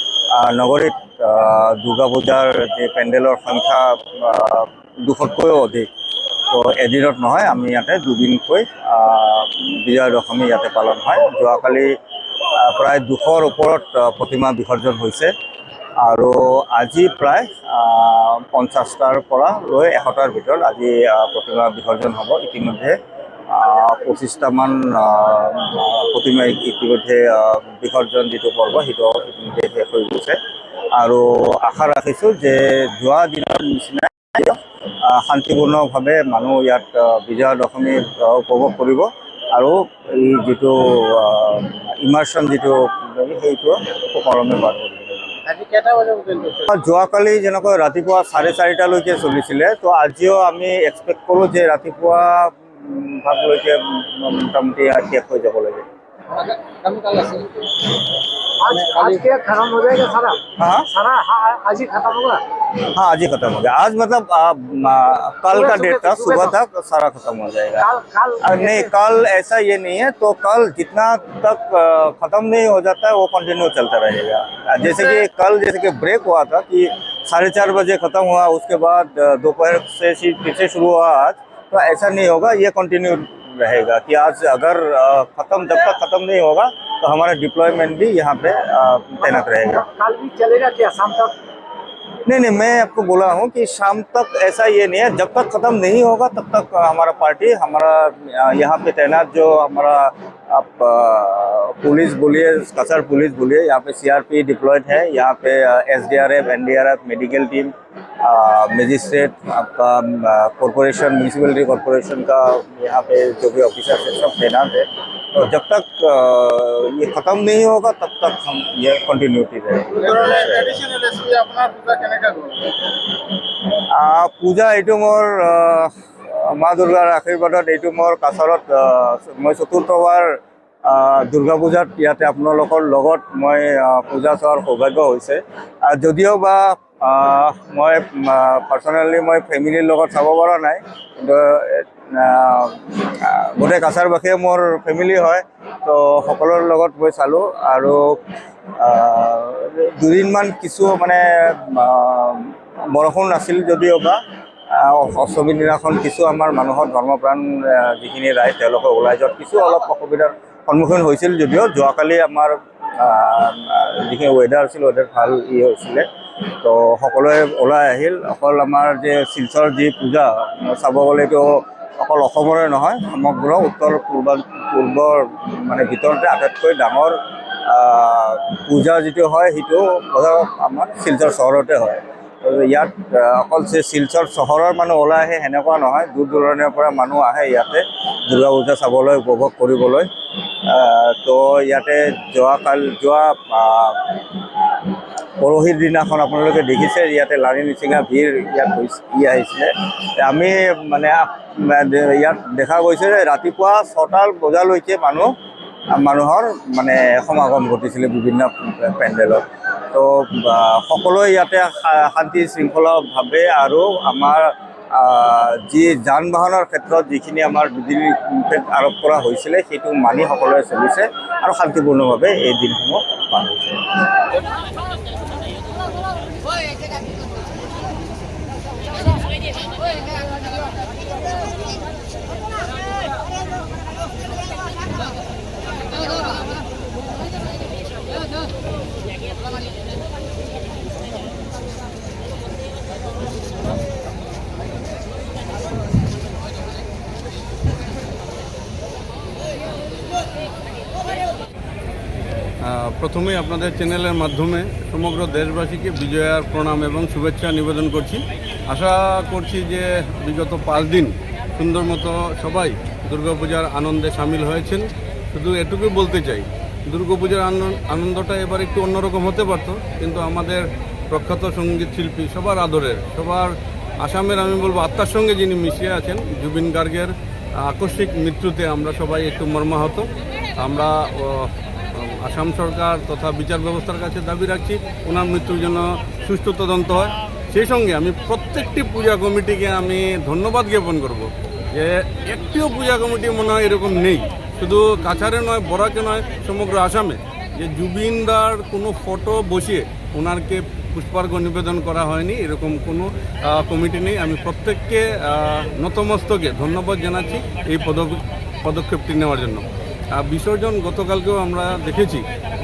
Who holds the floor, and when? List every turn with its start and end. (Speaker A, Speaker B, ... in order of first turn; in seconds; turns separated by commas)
Speaker A: 0.3-5.9, Speaker A: 6.5-11.9, Speaker A: 12.6-15.3, Speaker A: 16.0-22.9, Speaker A: 23.5-30.4, Speaker A: 30.9-45.4, Speaker B: 45.5-46.7, Speaker A: 46.7-55.8, Speaker B: 56.3-57.7, Speaker C: 58.6-62.4, Speaker A: 60.6-60.9, Speaker A: 62.8-67.9, Speaker C: 65.5-66.5, Speaker C: 67.8-68.9, Speaker A: 68.4-89.8, Speaker C: 89.2-91.3, Speaker A: 92.3-120.8, Speaker B: 120.0-122.7, Speaker A: 123.8-130.3, Speaker A: 130.8-148.2, Speaker A: 148.8-154.2, Speaker A: 154.7-166.1, Speaker A: 166.6-190.1, Speaker A: 190.7-194.2, Speaker A: 195.4-205.3, Speaker A: 205.9-224.1, Speaker D: 252.6-280.1, Speaker D: 280.6-312.2